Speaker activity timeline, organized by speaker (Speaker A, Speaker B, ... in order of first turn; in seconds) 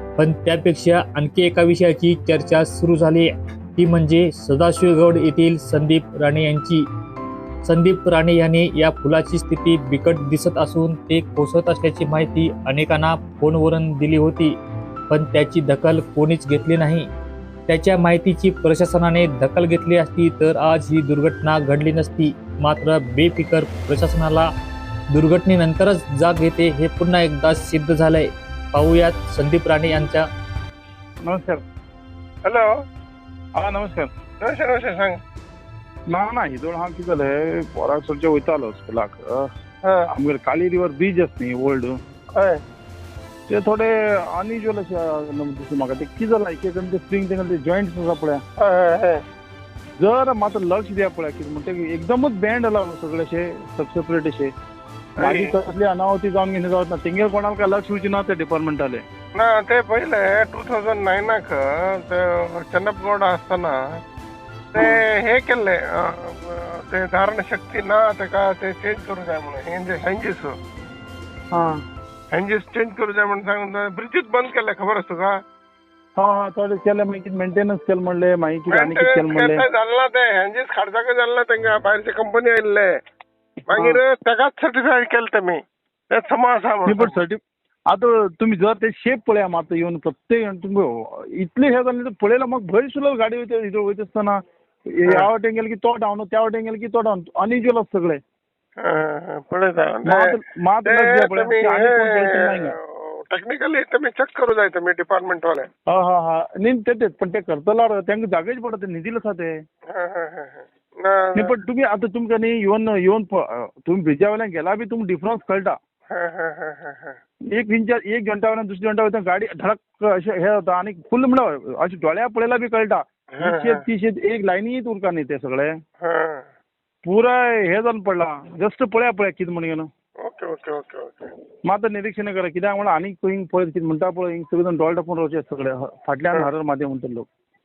Speaker A: 0.2-6.8, 7.7-14.5, 15.1-17.1, 17.7-24.5, 25.1-30.2
Speaker B: 31.2-31.6, 33.5-34.1, 36.1-39.5, 40.1-42.0, 43.5-48.4, 50.0-54.5, 55.2-59.0, 71.5-71.8, 76.2-79.6, 83.7-84.0, 86.8-94.4, 95.0-98.2, 100.0-102.7, 105.9-109.5, 111.3-115.8, 117.5-125.7, 127.0-129.9, 131.7-137.3
Speaker C: 32.4-32.7, 34.4-35.2, 42.3-42.6, 48.6-49.2, 55.2-55.5, 59.4-63.8, 64.7-70.5, 72.3-75.4, 78.7-82.9, 83.7-87.1, 98.8-105.7, 109.9-111.5, 116.1-117.2, 123.4-123.8, 126.0-126.4, 130.2-131.3